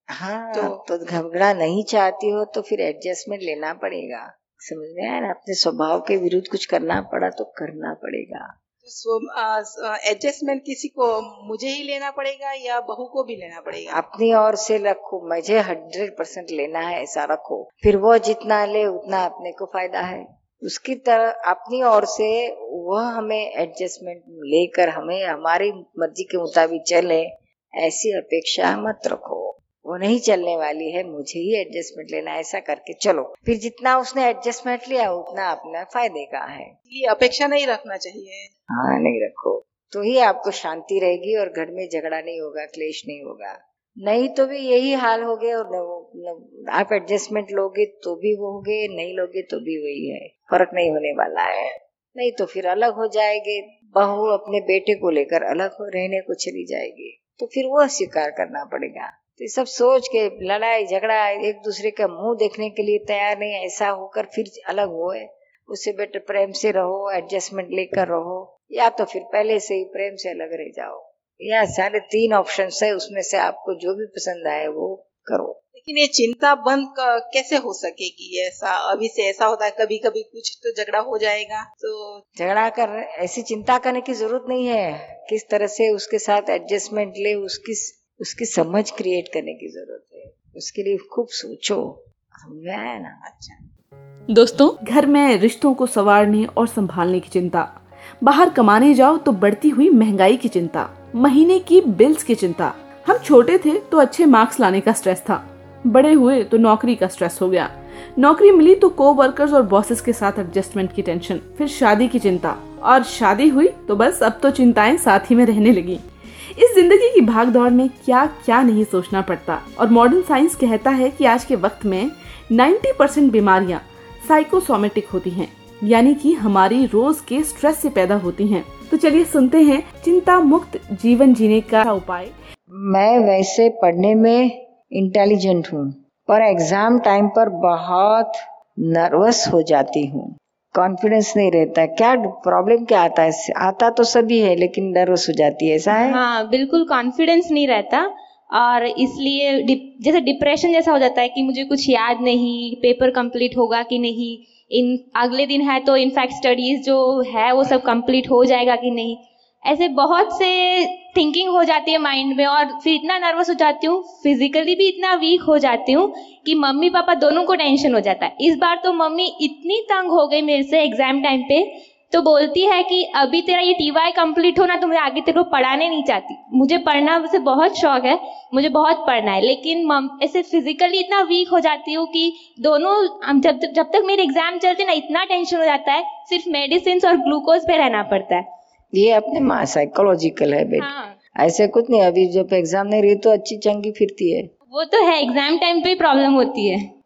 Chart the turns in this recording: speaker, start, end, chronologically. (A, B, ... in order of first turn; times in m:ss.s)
0:00.1-0:08.5 A
0:08.8-0:14.0 B
0:13.9-0:36.7 A
0:36.9-0:38.5 B
0:38.7-1:15.6 A
1:15.7-1:22.2 B
1:22.4-1:33.2 A
1:33.2-1:33.6 B
1:34.8-1:56.0 C
1:56.5-2:12.3 C
2:12.8-2:18.4 A
2:18.9-2:26.2 A
2:25.9-3:08.4 D
3:08.9-3:14.5 A
3:10.8-3:11.2 D
3:14.7-3:16.8 D